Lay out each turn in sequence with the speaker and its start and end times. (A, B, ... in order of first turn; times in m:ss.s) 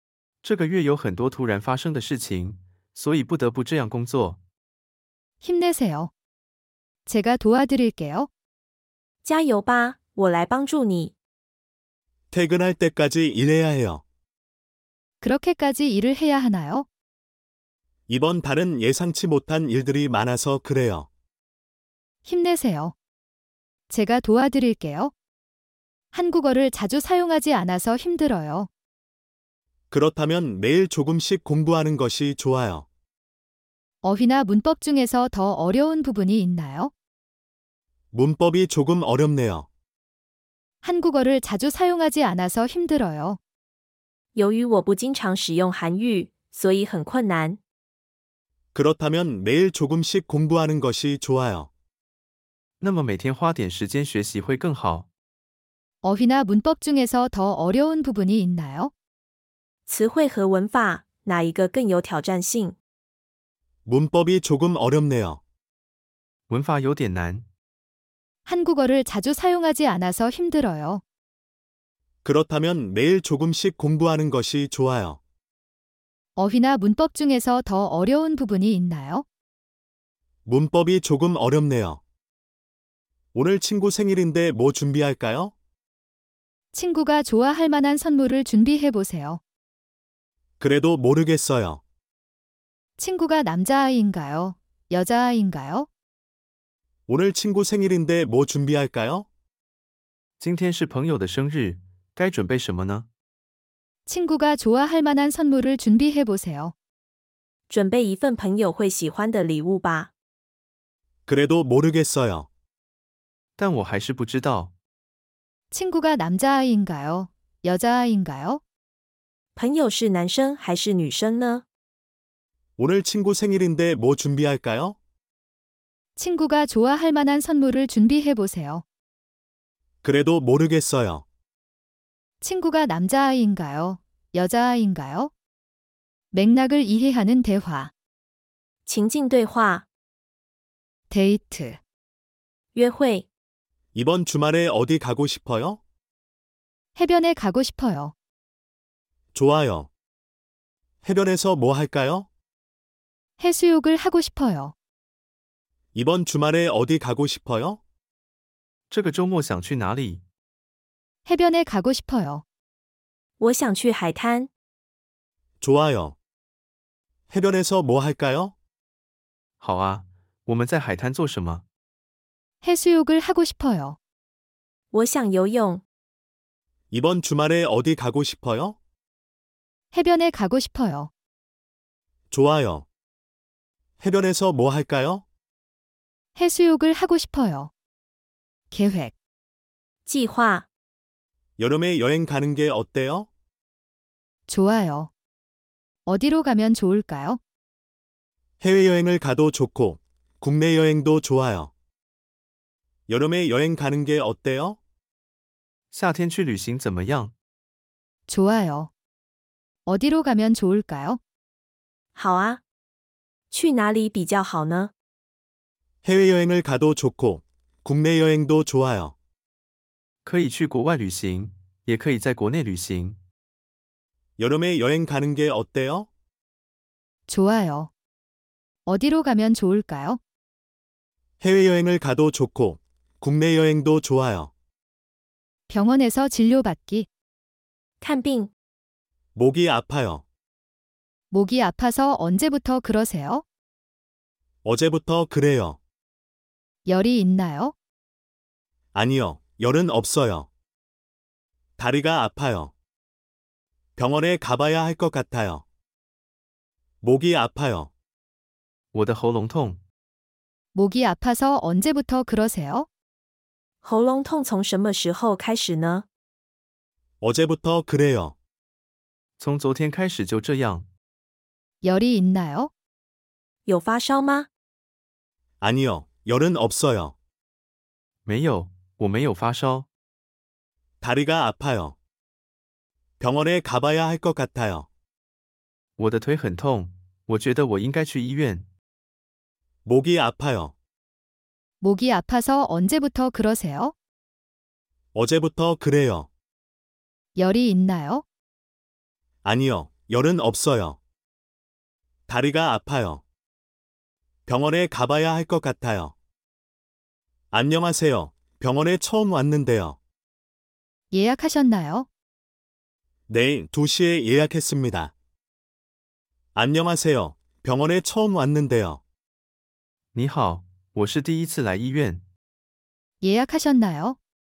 0:00.4-0:04.4 A
0:05.4-0:06.1 B
0:07.1-0:08.3 B
0:09.2-0:11.1 C
0:12.3-0:14.0 D
0:15.2-0:16.9 B
0:18.1-0:21.1 D
0:22.2-0:22.9 B
0:23.9-0:25.1 B
0:26.1-0:28.7 B
0:29.9-0:32.9 D
0:34.0-0:36.9 B
0:38.1-0:39.7 D
0:40.8-0:43.4 B
0:44.4-0:47.6 C
0:48.7-0:51.7 D
0:52.8-0:55.1 A
0:56.0-0:58.9 B
0:59.9-1:02.8 C
1:03.9-1:05.4 D
1:06.5-1:07.5 A
1:08.5-1:11.0 B
1:12.2-1:15.2 D
1:16.4-1:19.2 B
1:20.5-1:22.0 D
1:23.3-1:25.5 D
1:26.7-1:29.4 B
1:30.6-1:31.8 D
1:33.0-1:35.9 B
1:37.1-1:39.3 D
1:40.4-1:43.1 A
1:44.1-1:46.7 B
1:47.7-1:50.1 C
1:51.3-1:52.5 D
1:53.6-1:54.7 A
1:55.7-1:58.6 B
1:59.6-2:01.6 C
2:02.8-2:05.0 D
2:06.2-2:08.8 B
2:10.0-2:11.2 D
2:12.4-2:15.3 B
2:16.3-2:17.9 B
2:18.9-2:19.8 C
2:21.1-2:21.8 B
2:22.8-2:23.3 C
2:24.0-2:25.8 D
2:27.0-2:28.1 B
2:29.3-2:29.9 D
2:31.0-2:32.3 D
2:33.4-2:34.7 B
2:36.0-2:37.8 D
2:38.9-2:40.2 A
2:41.3-2:42.4 B
2:43.4-2:44.5 C
2:45.6-2:46.2 D
2:47.3-2:48.5 D
2:49.6-2:51.6 A
2:52.6-2:54.0 B
2:54.9-2:55.8 C
2:56.9-2:58.8 D
2:59.9-3:01.1 B
3:02.3-3:02.9 D
3:04.0-3:05.2 D
3:06.4-3:07.7 B
3:08.7-3:09.1 B
3:10.1-3:10.7 C
3:11.6-3:13.3 D
3:14.5-3:15.1 B
3:16.1-3:17.4 B
3:18.6-3:21.7 D
3:23.1-3:24.8 D
3:25.9-3:27.3 A
3:28.3-3:28.9 B
3:29.9-3:31.2 B
3:32.2-3:32.6 C
3:33.5-3:34.9 C
3:36.0-3:39.1 D
3:40.2-3:43.2 A
3:44.4-3:46.1 D
3:47.3-3:47.9 B
3:48.9-3:50.2 B
3:51.4-3:54.5 D
3:55.7-3:57.1 B
3:58.0-3:58.5 C
3:59.4-4:00.2 D
4:01.3-4:03.4 B
4:04.6-4:05.8 D
4:06.9-4:07.7 B
4:08.9-4:10.5 D
4:11.8-4:12.7 D
4:14.0-4:15.6 D
4:17.0-4:17.9 D
4:18.9-4:19.8 A
4:20.8-4:22.9 B
4:23.8-4:26.0 C
4:27.2-4:28.4 D
4:29.4-4:30.9 A
4:31.8-4:32.7 B
4:33.7-4:34.5 C
4:35.6-4:37.2 D
4:38.3-4:39.9 A
4:41.0-4:42.0 D
4:43.2-4:44.9 D
4:46.0-4:48.7 A
4:49.8-4:50.7 D
4:51.8-4:53.9 B
4:55.1-4:56.3 D
4:57.4-4:58.2 B
4:59.4-5:01.0 D
5:02.3-5:03.2 D
5:04.5-5:06.1 D
5:07.5-5:10.0 D
5:11.1-5:12.1 B
5:13.3-5:15.1 D
5:16.6-5:19.0 D
5:20.1-5:22.2 A
5:23.2-5:24.2 B